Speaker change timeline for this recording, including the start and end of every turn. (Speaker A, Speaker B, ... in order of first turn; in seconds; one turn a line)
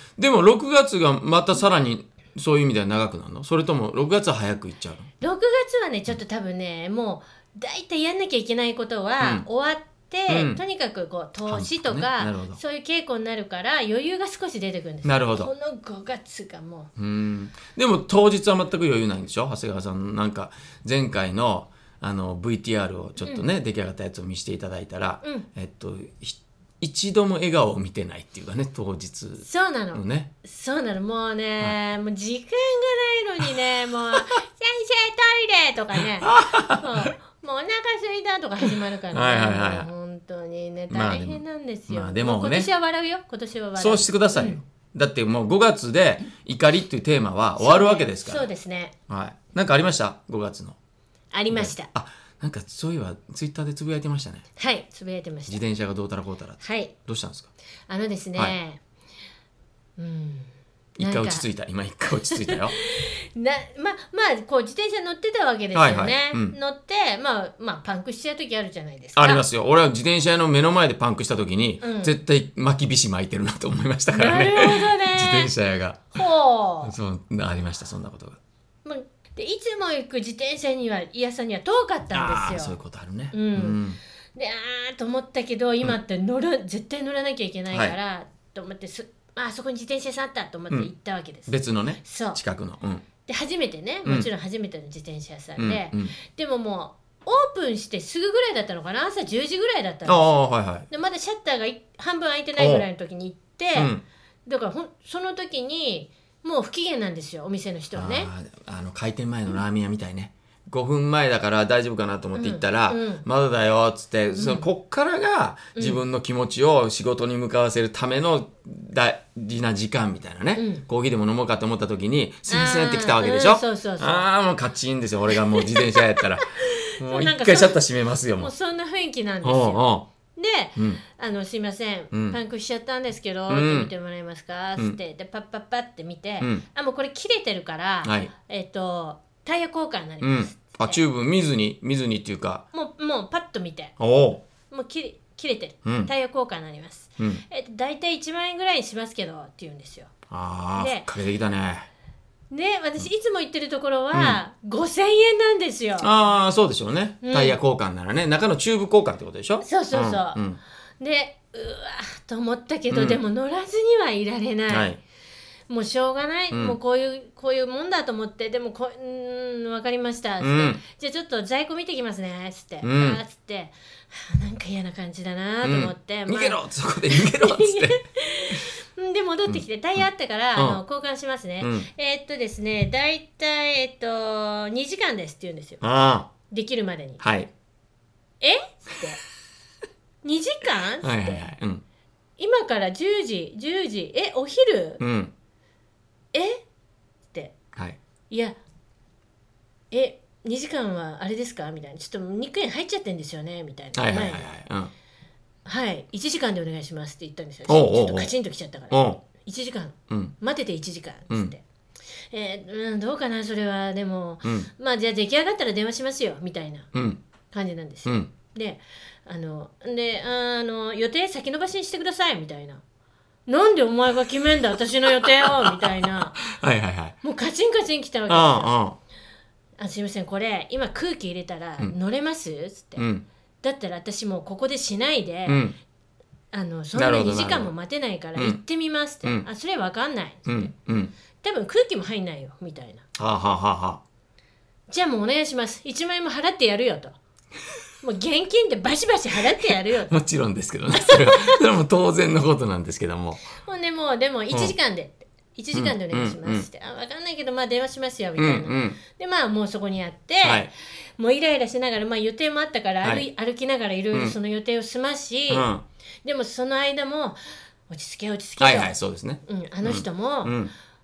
Speaker A: 0.2-5.1
Speaker B: 5.2-16.9
Speaker A: 9.2-9.4
Speaker A: 10.3-10.6
Speaker A: 11.5-12.6
Speaker A: 15.0-15.5
Speaker A: 17.0-30.3
Speaker B: 29.4-44.6
Speaker A: 36.0-37.1
Speaker A: 38.6-39.9
Speaker A: 40.9-42.7
Speaker A: 43.8-48.5
Speaker B: 47.6-48.9
Speaker A: 49.1-50.8
Speaker B: 51.3-51.9
Speaker A: 51.5-54.4
Speaker B: 54.6-55.6
Speaker A: 55.5-57.5
Speaker B: 56.6-56.9
Speaker B: 57.9-58.8
Speaker B: 60.0-61.4
Speaker A: 61.0-62.8
Speaker B: 62.3-69.4
Speaker A: 65.7-66.5
Speaker A: 69.2-76.1
Speaker B: 71.8-72.2
Speaker B: 74.1-75.5
Speaker B: 76.1-76.9
Speaker A: 76.8-78.4
Speaker B: 78.8-82.8
Speaker A: 82.1-84.0
Speaker B: 83.3-83.8
Speaker B: 84.3-92.4
Speaker A: 87.7-88.0
Speaker A: 91.5-93.0
Speaker B: 93.2-100.3
Speaker A: 95.6-96.1
Speaker A: 100.0-100.9
Speaker B: 100.9-103.9
Speaker A: 102.6-102.8
Speaker A: 103.7-104.0
Speaker B: 104.5-108.3
Speaker A: 107.9-128.5
Speaker B: 112.3-113.2
Speaker B: 114.3-114.7
Speaker B: 115.7-116.0
Speaker B: 120.5-120.8
Speaker B: 122.5-124.3
Speaker B: 125.5-127.8
Speaker B: 128.4-141.0
Speaker A: 129.4-130.1
Speaker A: 130.8-131.0
Speaker A: 132.1-132.4
Speaker A: 133.5-133.9
Speaker A: 138.0-138.3
Speaker A: 140.2-142.7
Speaker B: 142.7-143.9
Speaker A: 144.0-144.4
Speaker B: 144.7-150.1
Speaker A: 145.8-146.1
Speaker A: 150.3-151.9
Speaker B: 150.8-151.1
Speaker B: 152.5-156.1
Speaker A: 154.1-154.4
Speaker A: 156.0-160.6
Speaker B: 157.2-157.6
Speaker B: 159.6-160.4
Speaker B: 161.0-164.9
Speaker A: 162.9-163.2
Speaker A: 164.7-165.0
Speaker B: 165.7-185.8
Speaker A: 166.5-166.8
Speaker A: 170.4-170.8
Speaker A: 172.8-173.2
Speaker A: 175.6-178.0
Speaker A: 179.5-180.0
Speaker A: 180.5-180.8
Speaker A: 181.6-181.9
Speaker A: 185.8-186.3
Speaker B: 186.5-187.2
Speaker A: 187.2-187.5
Speaker B: 188.4-189.2
Speaker B: 190.2-191.5
Speaker A: 191.0-191.8
Speaker B: 192.4-195.0
Speaker A: 195.0-195.3
Speaker B: 196.3-196.6
Speaker B: 198.3-198.6
Speaker B: 199.9-204.5
Speaker A: 203.9-204.9
Speaker B: 205.7-211.6
Speaker A: 207.7-208.3
Speaker A: 208.9-209.2
Speaker A: 210.1-210.3
Speaker B: 212.3-216.9
Speaker A: 214.4-214.7
Speaker A: 216.9-217.2
Speaker B: 217.5-222.8
Speaker A: 218.1-218.3
Speaker B: 223.5-226.4
Speaker A: 225.2-227.2
Speaker B: 227.2-228.8
Speaker A: 228.3-229.0
Speaker B: 229.8-233.0
Speaker A: 233.0-233.2
Speaker B: 233.6-235.6
Speaker A: 235.5-235.8
Speaker B: 236.5-240.7
Speaker A: 236.9-237.7
Speaker A: 240.4-241.1
Speaker B: 241.4-243.0
Speaker A: 243.2-244.0
Speaker B: 244.9-247.2
Speaker B: 248.0-250.2
Speaker A: 249.6-253.5
Speaker B: 250.9-251.6
Speaker B: 253.6-265.7
Speaker A: 255.7-256.7
Speaker A: 258.4-259.0
Speaker A: 260.4-260.7
Speaker A: 264.1-264.4
Speaker A: 265.5-265.8
Speaker B: 266.2-268.9
Speaker A: 268.6-270.7
Speaker B: 269.4-270.6